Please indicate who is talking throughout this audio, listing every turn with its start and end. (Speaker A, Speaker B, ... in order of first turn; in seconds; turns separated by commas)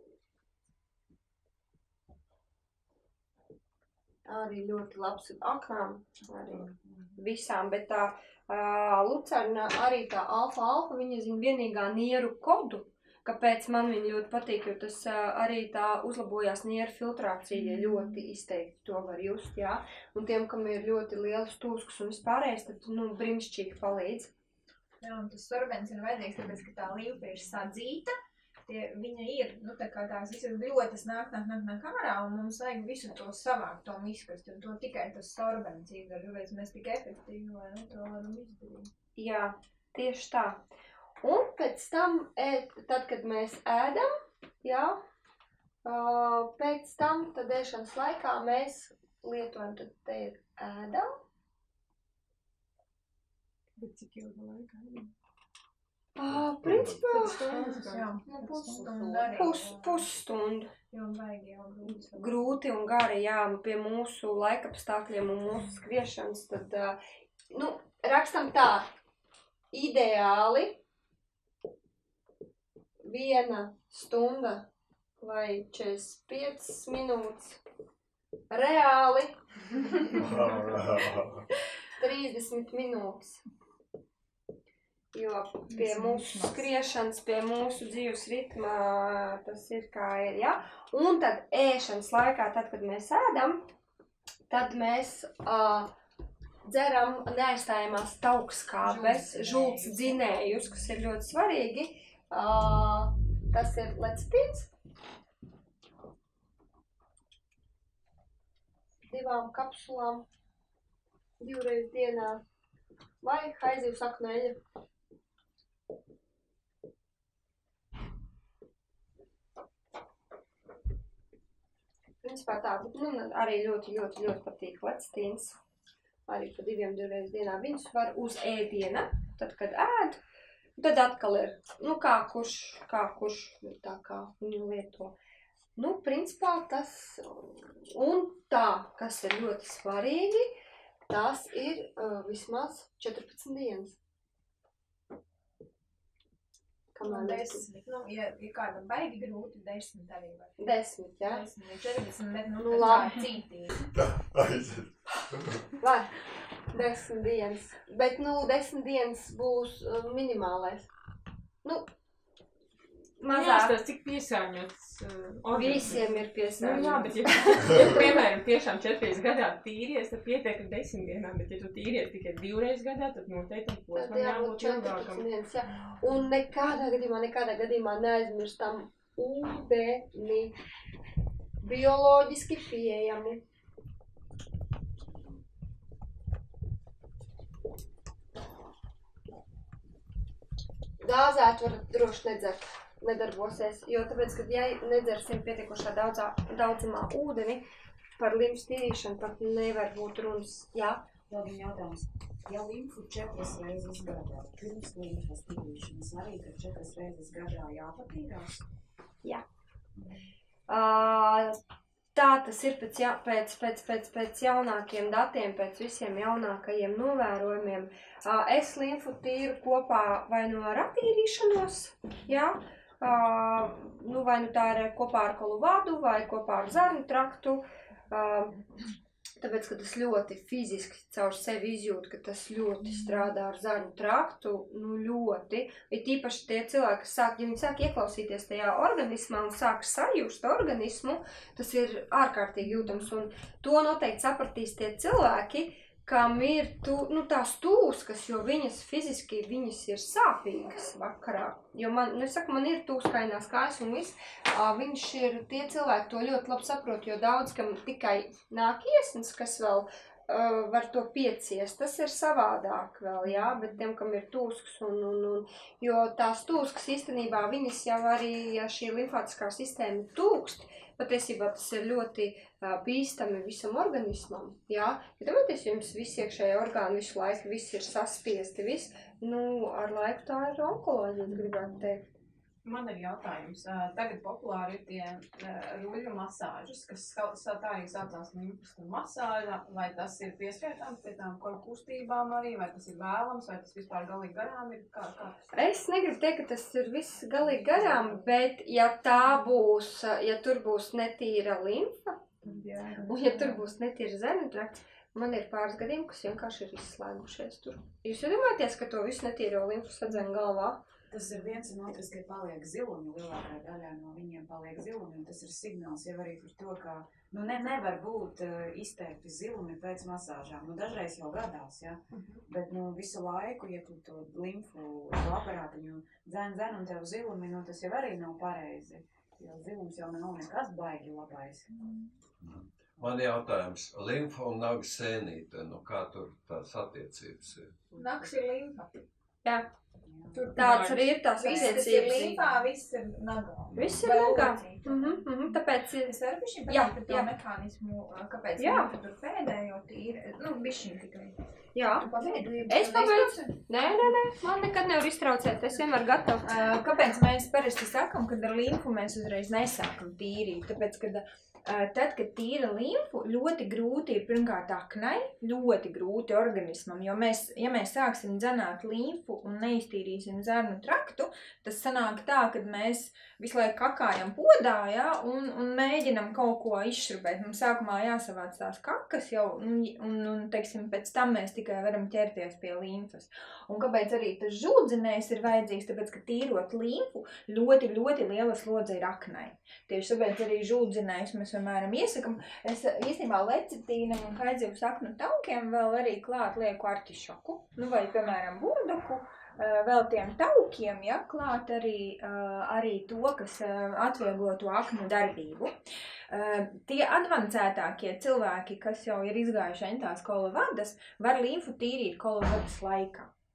Speaker A: 4.2-24.3, Speaker B: 25.0-28.1, Speaker B: 28.6-38.9, Speaker A: 39.1-40.6, Speaker A: 41.2-44.1, Speaker A: 44.6-45.0, Speaker A: 45.8-51.1, Speaker C: 53.8-55.1, Speaker A: 56.1-57.5, Speaker D: 56.3-57.0, Speaker C: 57.1-59.1, Speaker B: 57.4-59.9, Speaker E: 59.1-59.5, Speaker A: 59.3-60.7, Speaker B: 60.9-62.3, Speaker A: 62.1-67.0, Speaker A: 67.5-68.9, Speaker A: 69.7-70.8, Speaker A: 73.0-74.7, Speaker A: 75.2-77.6, Speaker A: 78.5-79.3, Speaker D: 80.2-81.4, Speaker A: 82.0-83.4, Speaker A: 85.1-93.7, Speaker B: 85.7-86.6, Speaker A: 94.5-95.9, Speaker A: 96.6-104.7, Speaker F: 98.9-100.0, Speaker A: 109.1-110.2, Speaker A: 111.4-112.4, Speaker A: 113.2-114.6, Speaker A: 122.2-125.6, Speaker A: 126.3-130.2, Speaker A: 130.8-135.2, Speaker A: 135.8-140.5, Speaker A: 141.1-143.9, Speaker A: 146.9-147.7, Speaker B: 147.0-150.6, Speaker A: 150.6-151.4, Speaker B: 151.2-153.9, Speaker A: 152.6-153.2, Speaker D: 153.9-155.6, Speaker A: 155.8-156.1, Speaker A: 156.7-160.9, Speaker A: 161.6-161.9, Speaker A: 163.2-163.8, Speaker C: 163.3-175.2, Speaker A: 165.5-168.2, Speaker A: 173.9-180.6, Speaker A: 181.6-183.4, Speaker A: 191.0-197.6, Speaker A: 198.2-201.1, Speaker F: 201.3-208.6, Speaker A: 210.7-211.6, Speaker A: 212.1-228.6, Speaker A: 229.4-282.1, Speaker E: 282.7-295.4, Speaker A: 295.5-302.4, Speaker F: 302.4-302.7, Speaker E: 302.5-303.3, Speaker A: 303.1-310.8, Speaker F: 311.1-331.7, Speaker G: 332.4-337.8, Speaker B: 337.9-338.9, Speaker F: 340.0-340.5, Speaker C: 340.4-342.0, Speaker A: 340.5-342.3, Speaker B: 341.4-351.4, Speaker G: 343.7-344.1, Speaker A: 343.8-347.3, Speaker A: 348.6-348.9, Speaker A: 351.7-356.6, Speaker B: 352.0-354.1, Speaker B: 356.4-405.8, Speaker B: 406.3-413.3